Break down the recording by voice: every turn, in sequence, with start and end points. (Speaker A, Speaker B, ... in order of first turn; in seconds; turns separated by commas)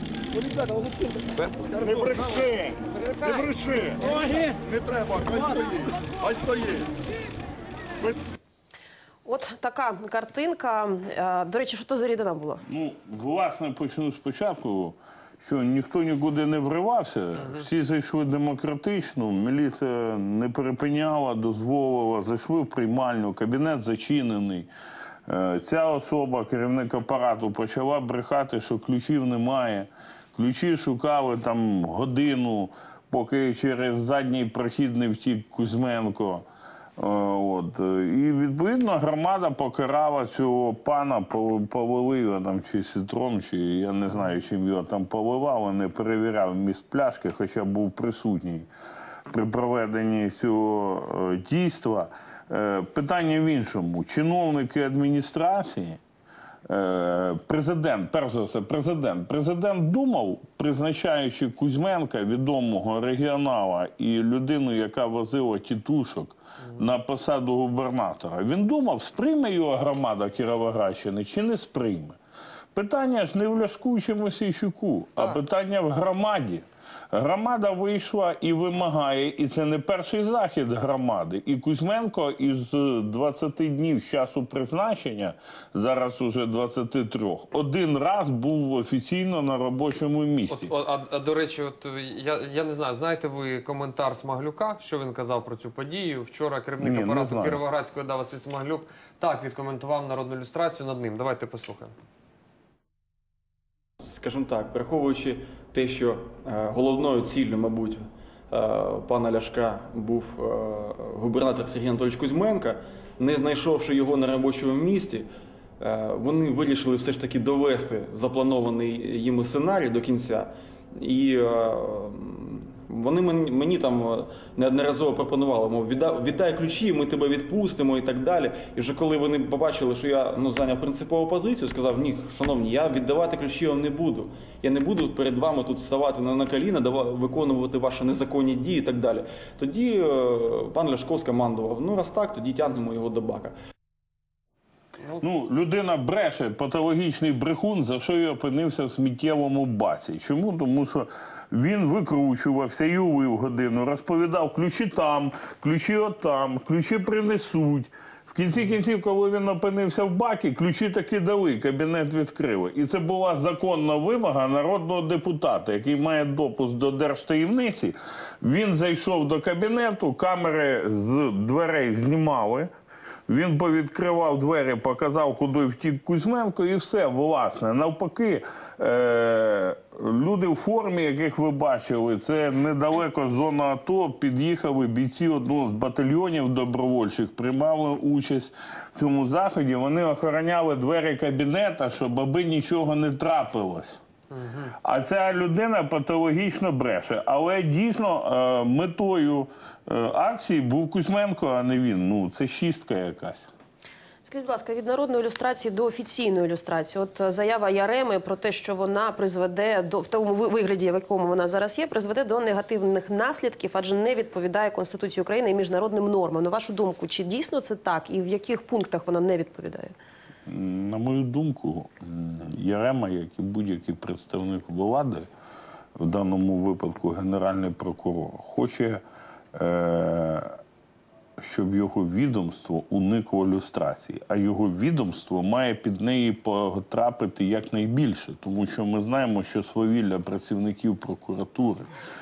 Speaker A: 1.8-6.9, Speaker B: 9.2-12.6, Speaker C: 12.7-24.7, Speaker C: 25.3-36.5, Speaker C: 37.0-48.7, Speaker C: 49.3-56.0, Speaker C: 56.7-72.2, Speaker C: 72.7-90.7, Speaker D: 90.5-101.9, Speaker C: 96.8-97.6, Speaker E: 104.0-115.3, Speaker E: 115.8-143.5, Speaker C: 145.2-172.7, Speaker C: 173.3-194.0, Speaker D: 194.3-194.7, Speaker C: 194.8-203.5, Speaker B: 204.2-219.9, Speaker C: 220.5-225.2, Speaker C: 226.0-229.0, Speaker C: 229.5-230.5, Speaker C: 231.4-241.9